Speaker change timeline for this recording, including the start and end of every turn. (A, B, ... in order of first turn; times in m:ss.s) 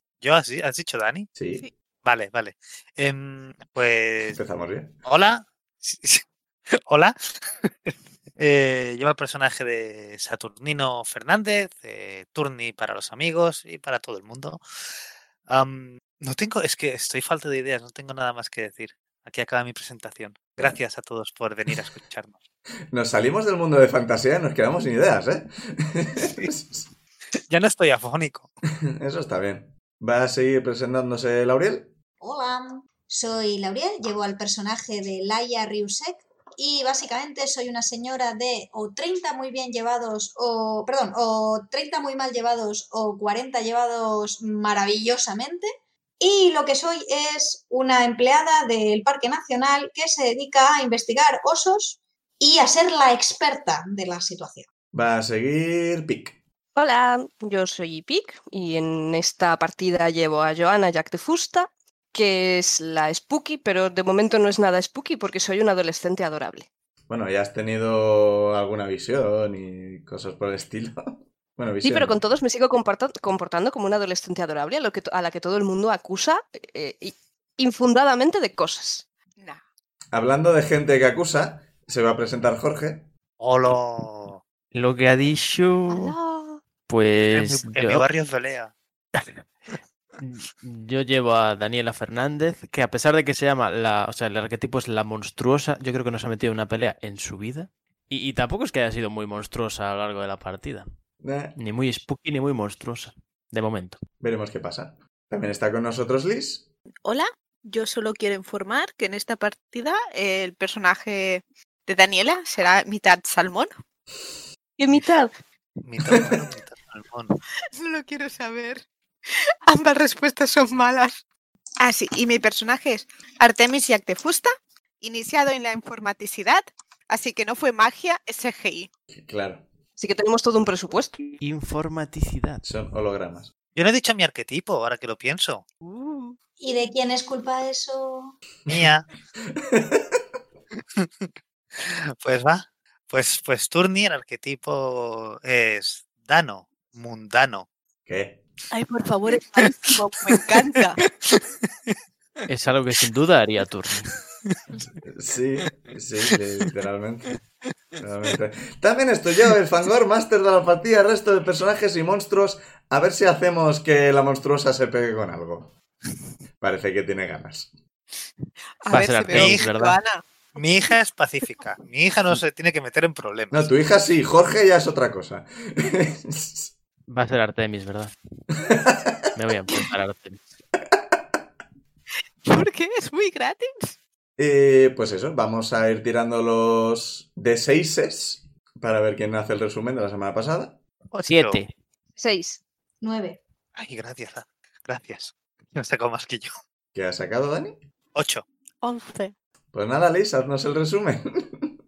0:00.2-0:01.3 A
0:01.4-0:01.6 B
0:02.0-0:04.4 A
0:04.3-0:05.0 B
0:05.0-0:14.6 A
0:15.5-0:22.4 A
0:22.9-0:26.8 B
0:27.5-0:28.5 A
0:28.8-0:31.9 B
0:32.2-0:45.7 C
0:46.2-0:54.7 C
0:54.9-0:56.4 B
0:56.7-1:06.7 D
1:07.1-1:12.2 B
1:11.8-1:19.0 D
1:20.1-1:23.1 B
1:23.4-1:24.4 A
1:24.7-1:26.1 E
1:25.9-1:26.4 D
1:26.9-1:28.0 E
1:27.2-1:28.7 A
1:29.2-1:29.4 E
1:30.2-1:40.9 E
1:41.2-1:41.6 B
1:41.5-1:44.0 E
1:44.2-1:46.7 B
1:47.0-1:53.7 F
1:54.8-1:55.3 D
1:55.8-1:57.4 A
1:57.7-2:01.2 F
2:01.8-2:08.9 F
2:09.1-2:09.6 B
2:10.0-2:11.4 D
2:11.4-2:12.6 E
2:12.6-2:13.5 B
2:13.7-2:15.6 A
2:15.8-2:16.3 F
2:16.6-2:18.3 C
2:18.7-2:19.1 A
2:19.5-2:20.2 B
2:21.0-2:27.7 A
2:28.0-2:28.4 B
2:28.7-2:31.0 F
2:32.5-2:34.1 E
2:35.0-2:37.3 B
2:38.0-2:45.7 B
2:46.6-2:47.7 B
2:48.8-2:50.2 F
2:48.9-2:50.0 E
2:49.3-2:49.7 A
2:50.5-2:53.7 A
2:53.5-2:56.7 B
2:57.1-2:58.1 E
2:58.6-2:59.2 B
2:59.4-3:00.4 E
3:02.4-3:04.0 F
3:04.4-3:10.8 B
3:11.1-3:11.6 A
3:11.3-3:11.7 E
3:12.2-3:12.6 D
3:13.0-3:13.4 C
3:13.7-3:16.5 A
3:16.9-3:17.8 B
3:18.1-3:18.4 A
3:18.8-3:19.3 F
3:19.7-3:21.8 B